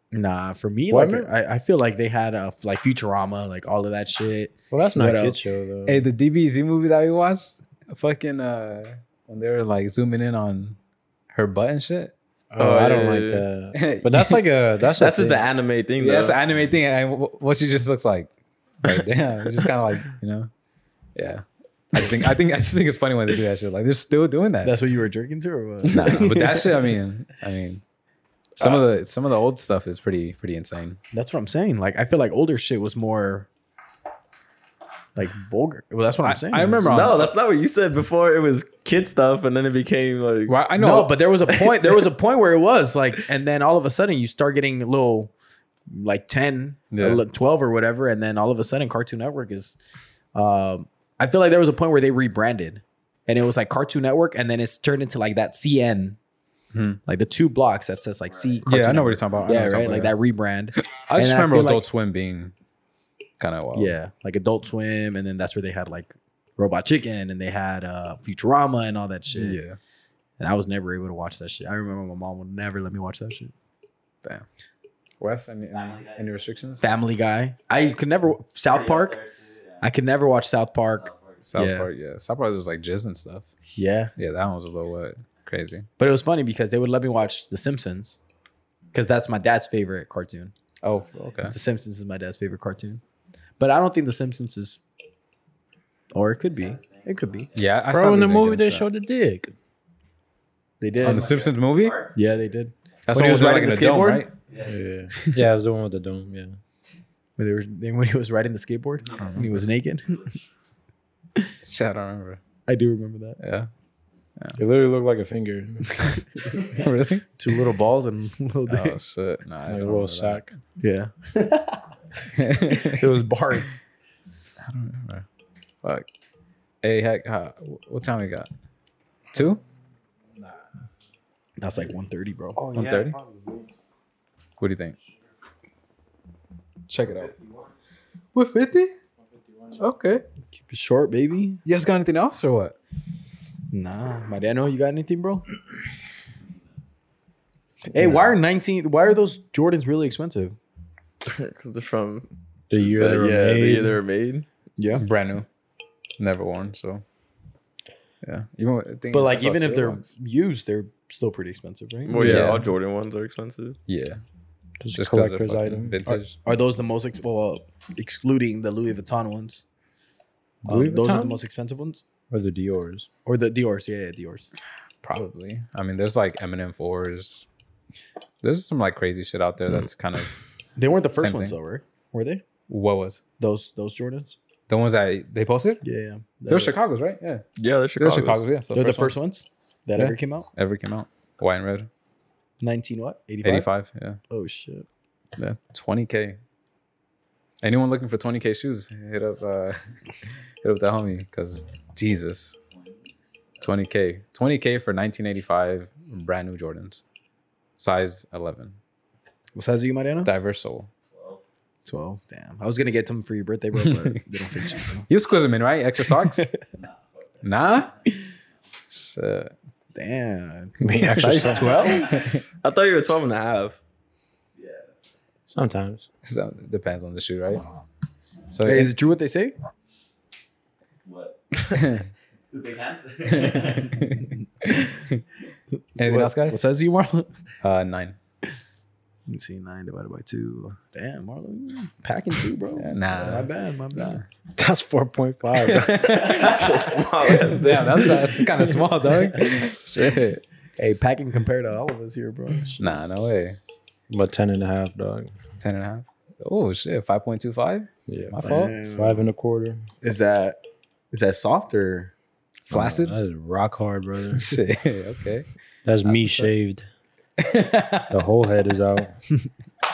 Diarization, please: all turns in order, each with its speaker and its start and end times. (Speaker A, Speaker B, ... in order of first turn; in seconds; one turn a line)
Speaker A: 0.1-5.4
Speaker B: 0.9-1.3
Speaker B: 4.7-6.1
Speaker C: 5.9-10.8
Speaker C: 11.3-12.1
Speaker B: 12.5-15.4
Speaker D: 12.6-13.4
Speaker C: 13.7-14.4
Speaker D: 15.0-16.4
Speaker C: 16.0-18.3
Speaker C: 18.8-20.5
Speaker C: 21.2-24.8
Speaker A: 24.6-26.7
Speaker C: 25.9-27.8
Speaker C: 28.6-31.0
Speaker A: 31.1-33.5
Speaker A: 35.2-37.0
Speaker C: 36.2-37.3
Speaker D: 36.8-40.6
Speaker C: 40.5-41.1
Speaker A: 40.8-45.3
Speaker D: 41.5-42.0
Speaker A: 45.9-49.8
Speaker C: 46.9-47.2
Speaker A: 50.3-56.2
Speaker C: 56.7-57.0
Speaker A: 57.0-61.9
Speaker E: 58.3-58.7
Speaker C: 58.7-60.1
Speaker C: 60.9-62.5
Speaker C: 63.4-64.0
Speaker A: 63.8-69.6
Speaker C: 69.3-69.8
Speaker A: 70.4-73.5
Speaker C: 75.2-76.9
Speaker E: 75.7-76.9
Speaker A: 76.8-79.2
Speaker E: 78.7-79.8
Speaker A: 79.8-81.9
Speaker E: 80.8-81.5
Speaker C: 81.5-83.5
Speaker A: 83.8-84.1
Speaker C: 84.2-85.9
Speaker A: 86.0-88.2
Speaker A: 88.9-90.5
Speaker C: 90.8-91.5
Speaker E: 90.9-91.5
Speaker A: 91.5-93.0
Speaker A: 93.6-94.8
Speaker A: 96.1-97.5
Speaker E: 96.2-97.6
Speaker C: 97.5-98.9
Speaker B: 97.9-99.5
Speaker A: 100.8-101.3
Speaker E: 100.9-102.2
Speaker C: 101.0-102.0
Speaker A: 102.2-104.3
Speaker C: 103.1-104.3
Speaker E: 104.5-104.8
Speaker B: 104.7-106.6
Speaker A: 107.4-110.2
Speaker E: 109.0-109.5
Speaker C: 109.1-109.5
Speaker C: 111.6-112.4
Speaker A: 112.7-113.4
Speaker C: 113.4-113.7
Speaker B: 114.6-115.9
Speaker E: 116.5-116.8
Speaker C: 116.7-117.3
Speaker A: 117.4-119.0
Speaker C: 118.7-120.5
Speaker B: 119.7-120.5
Speaker A: 120.8-121.8
Speaker C: 122.3-123.0
Speaker A: 122.5-123.8
Speaker C: 124.6-125.3
Speaker C: 126.8-128.5
Speaker C: 129.3-129.6
Speaker A: 131.6-132.6
Speaker B: 132.6-133.7
Speaker C: 132.7-133.2
Speaker C: 134.6-134.9
Speaker C: 136.9-137.3
Speaker C: 138.3-138.9
Speaker B: 139.3-139.8
Speaker C: 139.8-140.2
Speaker A: 140.7-141.6
Speaker C: 141.7-142.8
Speaker A: 143.7-145.4
Speaker A: 147.9-150.6
Speaker D: 151.2-152.3
Speaker B: 152.7-154.0
Speaker D: 152.8-154.4
Speaker A: 154.8-155.1
Speaker C: 155.0-155.5
Speaker C: 156.2-157.0
Speaker C: 158.2-160.1
Speaker A: 159.1-162.4
Speaker D: 162.1-163.8
Speaker C: 162.2-162.7
Speaker C: 163.9-164.2
Speaker B: 164.8-166.2
Speaker C: 164.9-166.4
Speaker A: 166.1-169.6
Speaker B: 170.6-171.4
Speaker A: 170.7-172.0
Speaker B: 172.3-173.1
Speaker A: 173.3-174.5
Speaker C: 175.0-177.4
Speaker C: 178.4-180.4
Speaker A: 180.8-182.4
Speaker C: 181.2-181.6
Speaker C: 182.7-183.2
Speaker A: 183.4-184.4
Speaker C: 184.7-185.8
Speaker A: 185.8-186.8
Speaker C: 186.5-187.4
Speaker D: 187.6-188.4
Speaker C: 188.0-189.2
Speaker A: 188.7-190.5
Speaker C: 190.0-191.9
Speaker A: 192.6-193.7
Speaker C: 193.4-194.2
Speaker A: 194.3-194.9
Speaker C: 195.4-196.4
Speaker C: 197.6-199.8
Speaker C: 200.6-202.6
Speaker E: 202.7-203.7
Speaker C: 203.6-207.0
Speaker C: 207.8-208.8
Speaker A: 209.6-210.3
Speaker C: 210.2-210.9
Speaker E: 211.1-211.4
Speaker A: 211.8-215.1
Speaker C: 215.1-216.5
Speaker A: 216.2-216.7
Speaker E: 216.7-218.3
Speaker C: 217.4-217.9
Speaker C: 218.9-219.5
Speaker A: 219.9-222.1
Speaker B: 220.8-222.1
Speaker E: 221.3-222.3
Speaker C: 222.0-222.4
Speaker D: 222.6-223.8
Speaker E: 224.6-224.9
Speaker B: 225.5-226.1
Speaker C: 226.2-227.6
Speaker C: 228.5-228.9
Speaker A: 228.7-229.5
Speaker E: 231.0-232.0
Speaker C: 231.8-232.0
Speaker E: 232.5-234.3
Speaker C: 233.3-235.2
Speaker C: 236.0-236.6
Speaker A: 236.0-237.3
Speaker C: 237.6-238.2
Speaker A: 239.3-244.2
Speaker C: 242.7-244.2
Speaker B: 244.6-246.1
Speaker C: 245.6-250.4
Speaker D: 246.0-248.2
Speaker A: 250.8-253.1
Speaker C: 252.8-253.6
Speaker B: 254.1-255.3
Speaker C: 255.6-258.8
Speaker B: 258.1-259.9
Speaker A: 258.5-259.2
Speaker A: 260.0-260.6
Speaker A: 261.1-262.1
Speaker C: 262.7-263.2
Speaker B: 262.7-264.6
Speaker C: 264.4-265.5
Speaker B: 265.9-266.9
Speaker C: 266.1-266.5
Speaker C: 267.4-268.2
Speaker B: 268.1-269.2